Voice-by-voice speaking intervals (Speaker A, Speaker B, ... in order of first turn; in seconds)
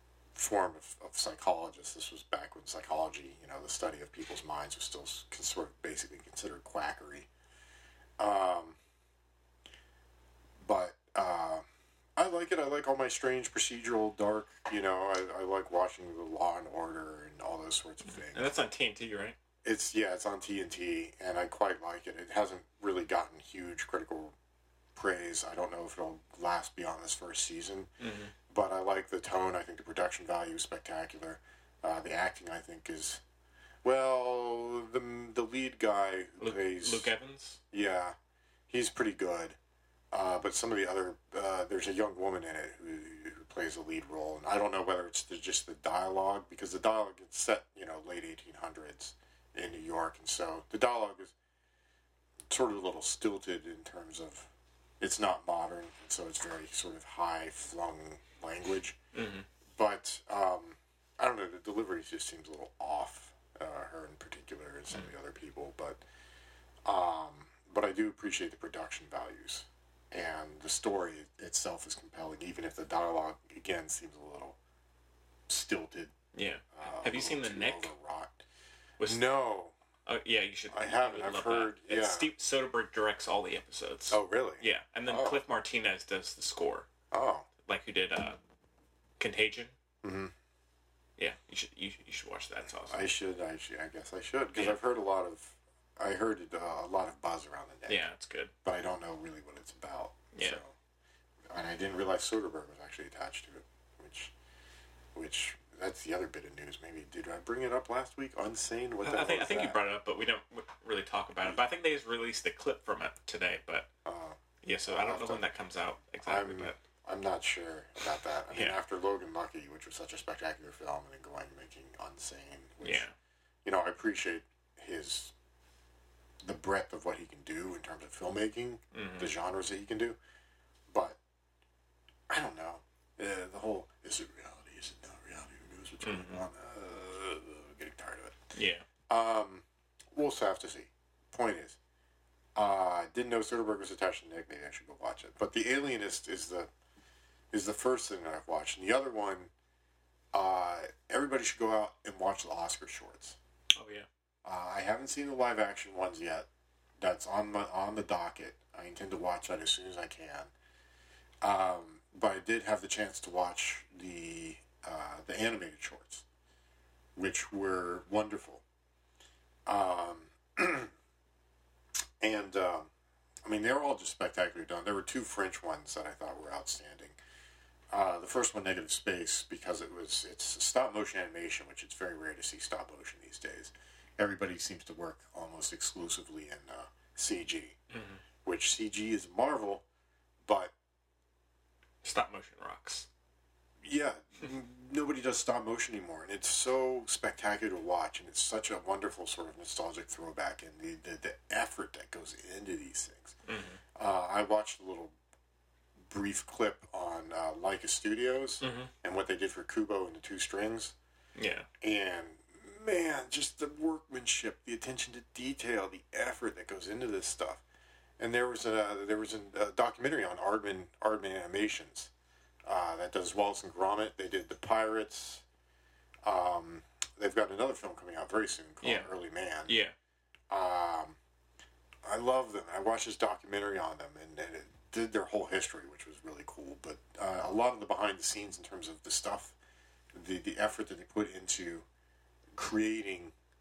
Speaker A: 0.3-7.3, 8.2-8.8, 10.6-11.7, 12.2-18.5, 19.6-24.4, 24.9-27.9, 28.5-33.2, 33.8-37.1, 37.7-38.1, 38.7-39.6, 40.1-51.3, 52.5-54.5, 55.0-59.0, 59.7-66.0, 66.8-74.6, 75.5-76.2, 76.7-78.4, 79.0-79.8, 80.7-82.3, 84.1-85.4, 87.1-87.5, 90.0-90.3, 92.9-98.0, 98.6-100.7, 101.5-104.3, 105.1-109.8, 114.0-115.4, 116.2-123.0, 123.6-125.3, 126.4-130.2, 130.9-131.2, 132.3-138.4, 139.1-141.8, 142.6-146.7, 147.5-149.5, 150.3-153.4, 154.4-156.5, 157.0-160.5, 161.4-166.2, 167.2-168.6, 169.7-170.9, 172.2-172.9, 173.4-177.2, 177.9-187.8, 188.4-189.8, 190.4-190.7, 193.8-203.4, 203.9-205.2, 206.1-210.9, 211.8-217.6, 218.2-222.1, 222.7-225.4, 226.2-229.8, 230.5-231.2, 232.0-239.6, 240.1-241.9, 242.5-243.3
Speaker B: 18.2-19.4, 28.0-28.3, 36.4-37.6, 59.1-59.5, 76.3-77.9, 79.0-79.2, 80.1-86.9, 87.6-88.4, 89.2-89.7, 91.2-93.1, 97.9-98.5, 100.3-100.6, 109.0-113.9, 114.6-116.8, 118.5-118.8, 122.8-123.1, 128.9-129.3, 136.0-136.4, 138.6-138.8, 153.7-154.1, 187.9-188.2, 192.0-193.1, 203.5-203.8, 208.6-208.9, 211.4-211.7, 228.8-229.1, 229.7-229.9